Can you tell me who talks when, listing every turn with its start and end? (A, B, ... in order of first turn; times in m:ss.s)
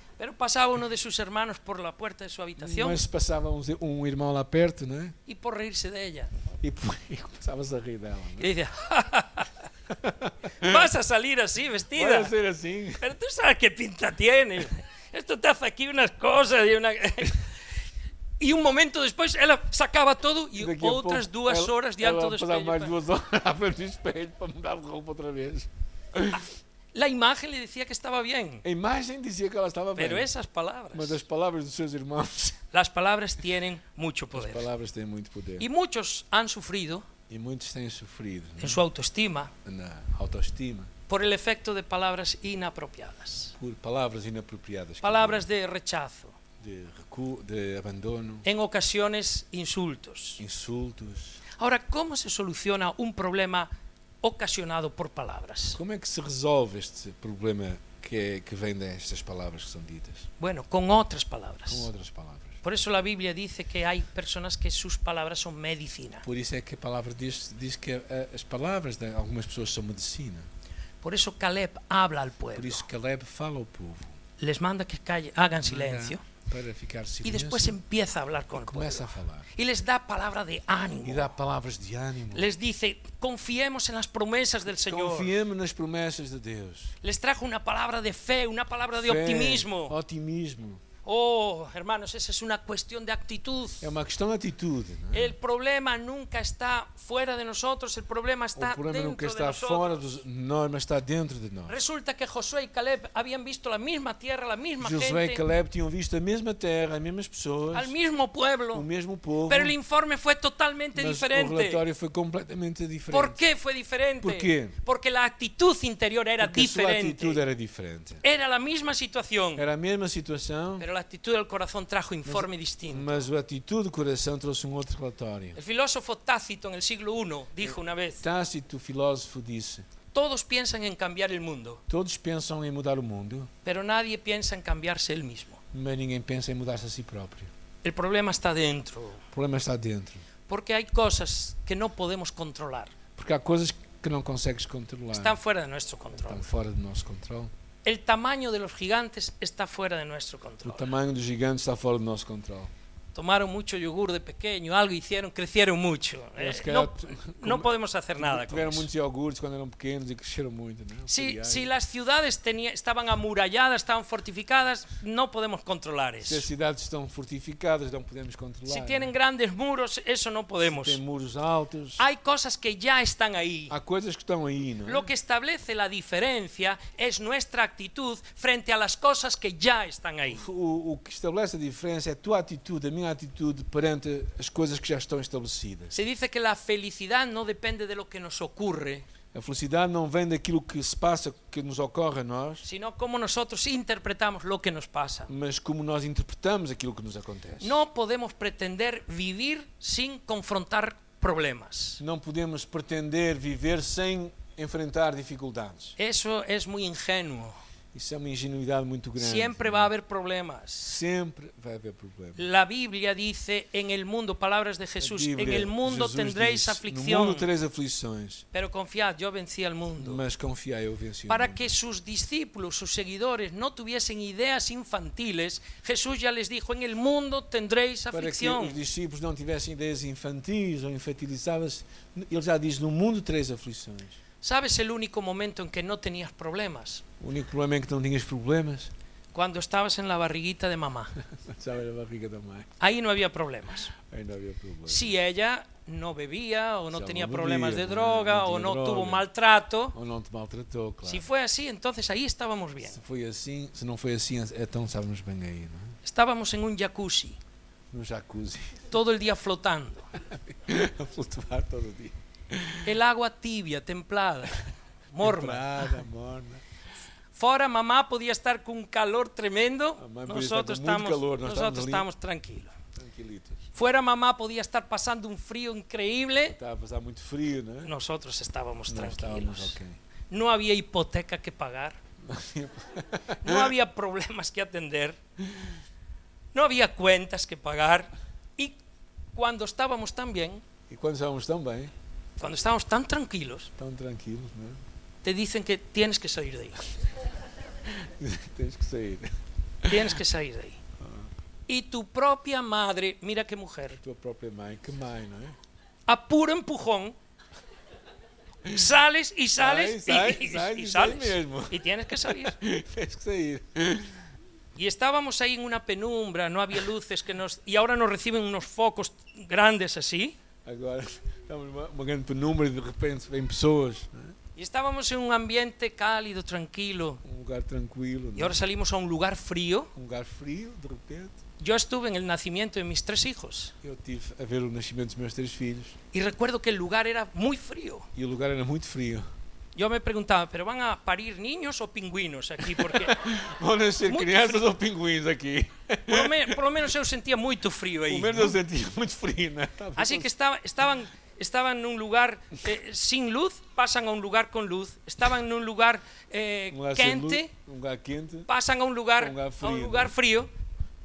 0:00.2-0:03.0 A
0:02.6-0:05.2 B
0:05.3-0:06.3 A
0:06.6-0:08.5 B
0:08.4-0:09.5 A
0:09.9-0:10.8 B
0:10.6-0:12.3 A
0:11.9-0:13.0 B
0:13.0-0:17.4 A
0:18.4-0:22.9 A
0:20.6-0:26.4 B
0:26.9-0:28.6 A
0:28.6-0:30.3 B
0:30.0-0:31.2 A
0:30.9-0:32.6 B
0:32.7-0:34.7 A
0:34.3-0:35.7 B
0:35.6-0:37.1 A
0:37.3-0:38.8 B
0:38.6-0:39.5 A
0:39.6-0:40.9 B
0:41.1-0:43.6 A
0:43.6-0:45.4 B
0:45.0-0:46.4 A
0:46.6-0:48.5 B
0:48.4-0:50.4 A
0:50.4-0:51.4 B
0:51.6-0:53.7 A
0:54.2-0:55.8 A
0:55.7-1:00.3 B
1:00.4-1:01.9 A
1:01.7-1:02.6 B
1:02.6-1:06.3 A
1:06.2-1:10.5 B
1:11.0-1:12.9 A
1:12.5-1:14.2 B
1:14.4-1:16.2 A
1:15.6-1:17.8 B
1:17.2-1:21.3 A
1:18.5-1:19.5 B
1:21.0-1:22.5 B
1:22.3-1:25.3 A
1:24.7-1:27.0 B
1:27.0-1:30.0 A
1:29.0-1:30.8 B
1:31.0-1:33.9 A
1:33.8-1:35.3 B
1:35.1-1:40.1 A
1:38.6-1:41.8 B
1:41.7-1:45.4 A
1:44.8-1:48.0 B
1:47.7-1:48.9 A
1:48.7-1:49.8 B
1:49.5-1:51.8 A
1:50.9-1:53.4 B
1:53.1-1:57.4 A
1:54.2-1:54.8 B
1:56.4-1:58.2 B
1:58.2-1:59.7 A
1:59.6-2:00.9 B
2:00.8-2:03.3 A
2:02.2-2:05.6 B
2:05.6-2:08.2 A
2:07.6-2:09.9 B
2:10.1-2:11.8 A
2:11.9-2:13.5 B
2:13.6-2:15.6 A
2:15.7-2:17.5 B
2:17.8-2:19.2 A
2:19.3-2:20.3 B
2:20.5-2:22.9 A
2:23.2-2:25.4 B
2:25.1-2:26.5 A
2:26.2-2:27.5 B
2:27.8-2:30.9 A
2:30.6-2:32.7 B
2:33.2-2:38.9 A
2:36.4-2:41.7 B
2:41.1-2:46.5 A
2:46.2-2:49.1 B
2:48.7-2:51.0 A
2:50.6-2:52.0 B
2:52.0-2:53.8 A
2:53.7-2:55.1 B
2:54.8-3:00.5 A
3:00.3-3:06.0 B
3:05.9-3:09.1 A
3:09.3-3:12.7 B
3:12.6-3:15.3 A
3:15.3-3:17.8 B
3:17.6-3:22.0 A
3:22.0-3:26.0 B
3:26.0-3:27.6 A
3:27.9-3:29.9 B
3:29.2-3:30.9 A
3:30.8-3:32.4 B
3:32.4-3:37.5 A
3:35.0-3:38.4 B
3:38.5-3:40.2 A
3:40.0-3:41.7 B
3:41.3-3:48.8 A
3:48.1-3:54.2 B
3:54.4-3:57.0 A
3:57.2-3:58.9 B
3:59.3-4:01.1 A
4:01.3-4:02.7 B
4:02.8-4:03.9 A
4:04.0-4:05.2 B
4:04.9-4:10.0 A
4:06.9-4:09.3 B
4:09.9-4:11.3 B
4:11.0-4:13.0 A
4:12.8-4:16.0 B
4:16.0-4:17.4 A
4:17.9-4:18.9 B
4:18.9-4:20.1 A
4:20.3-4:22.9 B
4:22.8-4:26.0 A
4:25.2-4:26.6 B
4:27.3-4:32.7 A
4:30.0-4:32.1 B
4:33.0-4:33.7 B
4:33.7-4:36.6 A
4:36.5-4:37.9 B
4:37.8-4:39.8 A
4:38.9-4:40.0 B
4:40.3-4:42.0 A
4:42.2-4:43.7 B
4:43.4-4:45.2 A
4:46.5-4:48.8 A
4:49.3-4:50.6 A
4:50.9-4:51.9 B
4:52.4-4:53.7 A
4:53.8-4:54.8 B
4:55.2-4:56.9 A
4:57.9-4:59.3 B
4:59.8-5:00.2 B
4:59.9-5:00.8 A
5:01.0-5:01.3 B
5:01.7-5:04.0 A
5:04.0-5:05.6 B
5:06.1-5:07.2 A
5:08.7-5:12.6 A
5:09.6-5:14.2 B
5:14.8-5:20.4 A
5:20.6-5:24.4 B
5:24.6-5:27.2 A
5:27.2-5:28.6 B
5:28.4-5:29.9 A
5:30.0-5:31.4 B
5:31.6-5:33.7 A
5:33.8-5:36.0 B
5:36.1-5:38.1 A
5:38.2-5:39.3 B
5:39.8-5:43.2 A
5:42.6-5:46.6 B
5:44.1-5:44.7 A
5:46.1-5:48.6 A
5:48.1-5:50.3 B
5:50.0-5:57.5 A
5:56.7-5:58.5 B
5:58.5-6:00.5 A
5:59.2-6:00.2 B